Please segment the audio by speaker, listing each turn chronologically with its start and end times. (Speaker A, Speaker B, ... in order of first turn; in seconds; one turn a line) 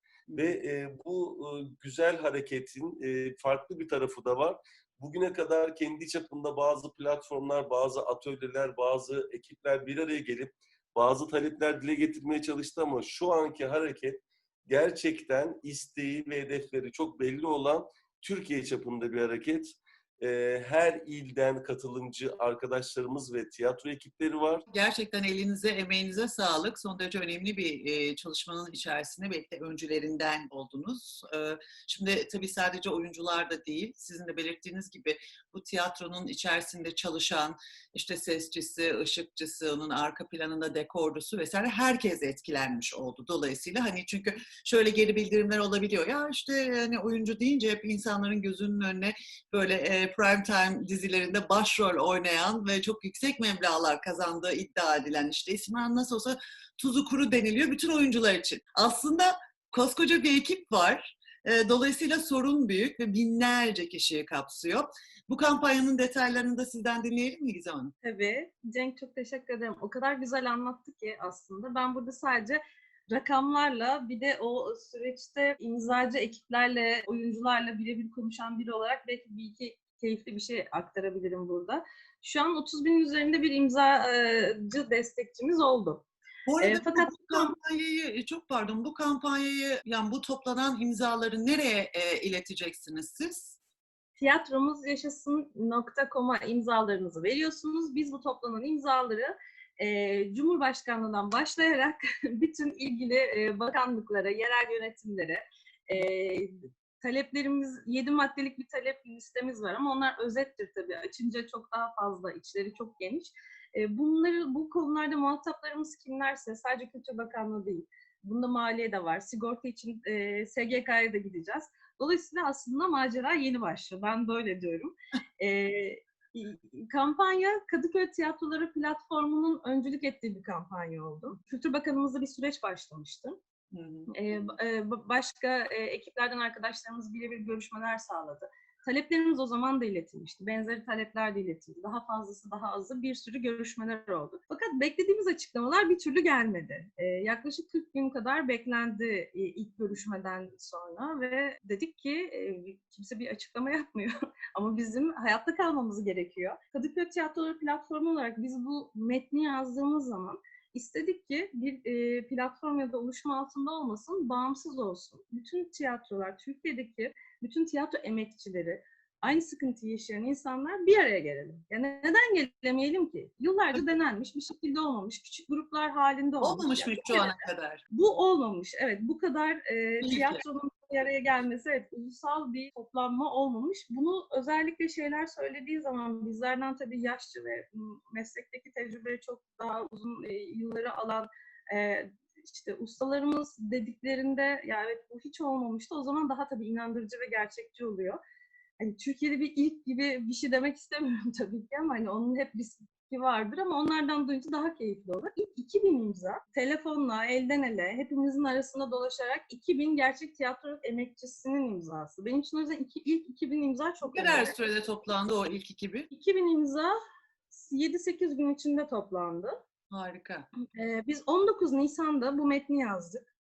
Speaker A: 0.4-24.6
Speaker B: 24.7-67.9
Speaker C: 68.0-86.1
Speaker B: 86.5-93.6
Speaker C: 86.6-87.5
Speaker C: 94.2-133.4
Speaker B: 133.7-134.1
Speaker C: 134.1-177.4
Speaker B: 176.4-177.8
Speaker C: 177.9-198.2
Speaker B: 180.0-180.4
Speaker C: 198.8-214.7
Speaker B: 214.0-216.1
Speaker C: 216.1-216.9
Speaker C: 217.5-219.6
Speaker B: 219.9-220.5
Speaker C: 220.7-223.3